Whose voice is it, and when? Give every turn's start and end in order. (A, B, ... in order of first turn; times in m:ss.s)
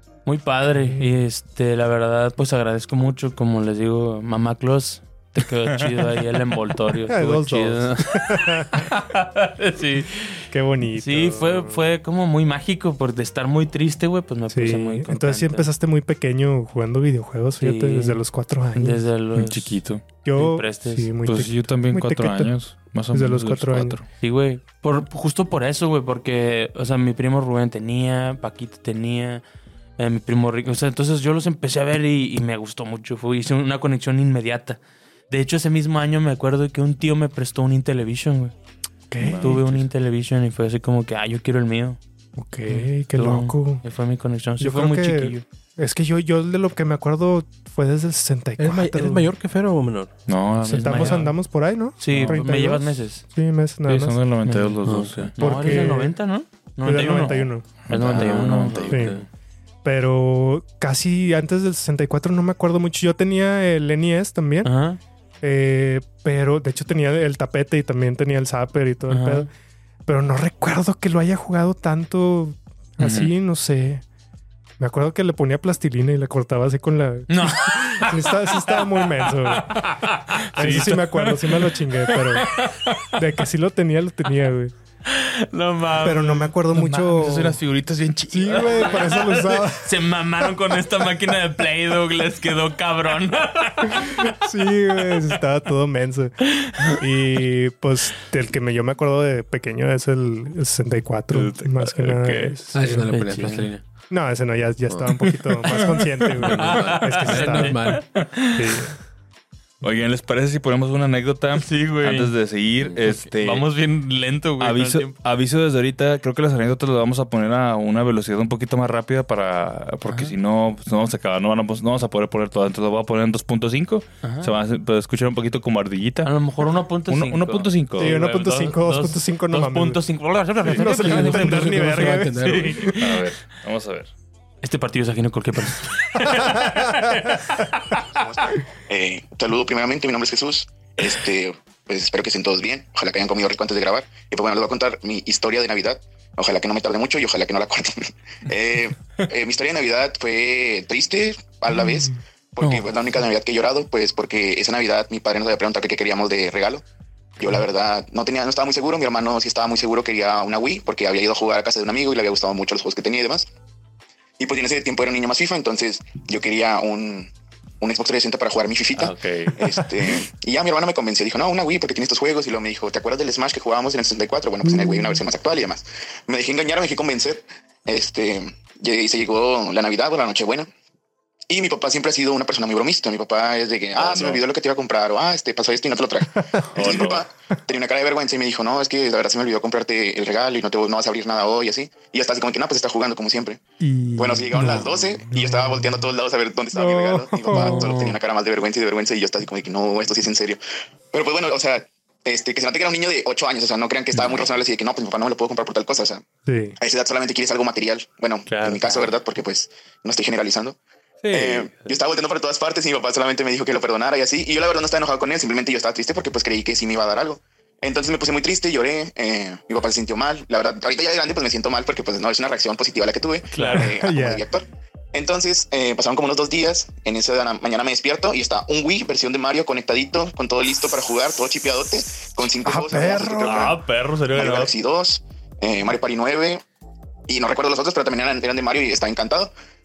0:00.3-0:10.4 A
0:07.0-0:08.9 B
0:10.5-0:11.8 B
0:11.0-0:15.7 A
0:14.5-0:19.0 B
0:17.6-0:18.2 A
0:18.8-0:19.8 A
0:19.4-0:20.0 C
0:20.2-0:22.5 B
0:20.4-0:21.1 A
0:21.3-0:24.0 C
0:23.1-0:24.0 B
0:24.2-0:29.4 A
0:30.0-0:34.8 A
0:35.3-0:38.5 A
0:39.1-0:39.6 B
0:39.2-0:39.7 C
0:39.4-0:42.0 A
0:42.4-0:43.8 B
0:42.7-0:45.4 A
0:44.6-0:49.3 B
0:48.6-0:50.1 D
0:50.3-0:51.3 C
0:50.7-0:54.2 B
0:50.7-0:51.3 A
0:52.0-0:53.2 A
0:52.1-0:52.4 C
0:53.9-0:55.8 C
0:54.4-0:54.8 A
0:54.8-0:55.8 D
0:55.4-0:59.1 A
0:55.4-0:56.2 B
0:56.8-0:57.7 B
0:57.9-0:59.1 C
0:58.1-0:59.3 D
0:58.9-0:59.2 B
0:59.8-1:04.7 B
1:04.6-1:05.0 A
1:05.4-1:09.5 B
1:09.1-1:09.5 A
1:10.1-1:14.0 B
1:14.8-1:20.0 B
1:17.3-1:23.2 A
1:20.6-1:22.5 B
1:23.0-1:24.7 B
1:25.1-1:27.6 A
1:26.0-1:27.6 B
1:26.7-1:29.2 C
1:28.3-1:29.9 B
1:28.3-1:34.3 A
1:34.0-1:43.1 B
1:41.3-1:42.7 C
1:42.7-1:43.8 D
1:43.1-1:43.7 A
1:44.1-1:48.0 B
1:46.4-1:48.0 D
1:46.6-1:48.5 A
1:48.5-1:48.9 B
1:49.8-1:53.6 C
1:51.5-1:52.3 A
1:53.1-1:55.1 A
1:54.6-2:06.4 C
2:00.1-2:00.3 A
2:04.2-2:04.5 A
2:06.2-2:13.0 A
2:07.1-2:08.2 C
2:08.0-2:10.0 B
2:10.5-2:12.9 D
2:10.6-2:13.2 B
2:13.0-2:14.1 C
2:14.6-2:18.0 A
2:16.3-2:17.4 B
2:18.9-2:36.8 E
2:31.8-2:32.1 B
2:32.6-2:33.0 A
2:37.4-2:43.5 E
2:44.4-3:00.7 E
2:49.0-2:49.6 C
2:54.6-2:55.2 B
3:01.5-3:13.6 E
3:04.0-3:04.4 C
3:06.6-3:07.0 B
3:06.7-3:07.2 C
3:13.8-3:16.1 B
3:14.2-3:20.6 E
3:16.7-3:18.0 B
3:17.5-3:18.2 A
3:21.1-3:26.2 E
3:26.4-3:26.8 B
3:26.8-3:30.8 E
3:28.5-3:29.1 C
3:31.2-3:31.9 C
3:31.3-3:53.8 E
3:43.5-3:43.9 A
3:43.6-3:44.4 B
3:52.6-3:53.6 B
3:53.4-3:54.7 C
3:54.4-3:56.6 E
3:57.3-3:59.5 E